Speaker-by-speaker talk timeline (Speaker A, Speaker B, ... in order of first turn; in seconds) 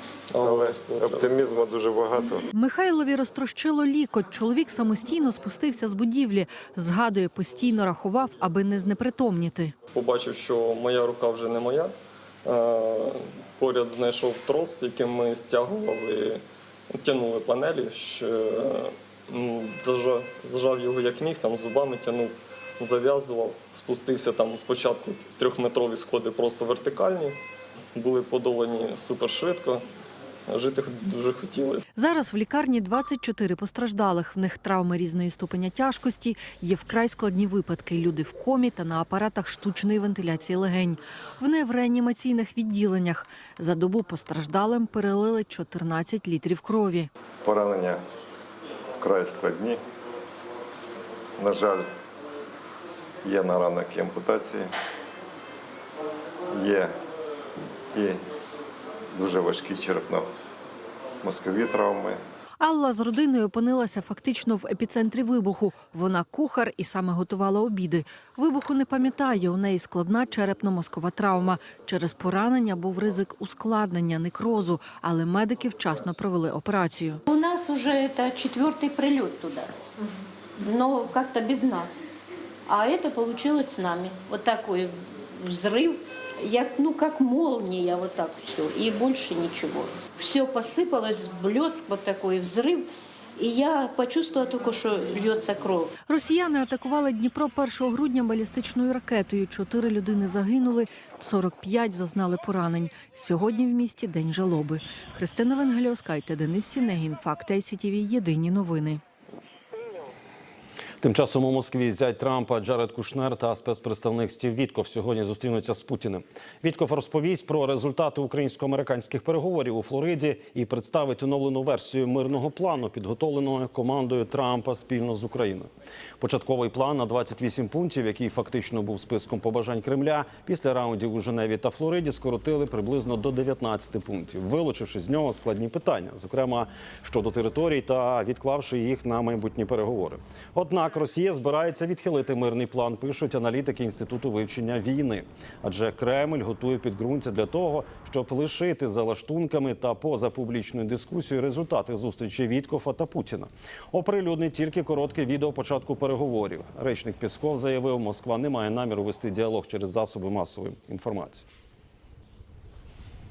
Speaker A: 0.3-1.6, 9.9-16.4, 16.9-27.4, 27.9-29.9, 30.5-31.8
Speaker B: 0.4-2.5, 47.4-48.0, 49.0-49.8, 51.4-51.9, 53.2-54.7, 56.5-56.9, 57.9-58.2, 59.1-60.3, 61.2-62.2
Speaker C: 2.5-9.7, 31.9-47.1, 62.6-77.2, 96.1-109.0
Speaker D: 77.3-82.0, 82.7-95.9
Speaker E: 111.0-161.5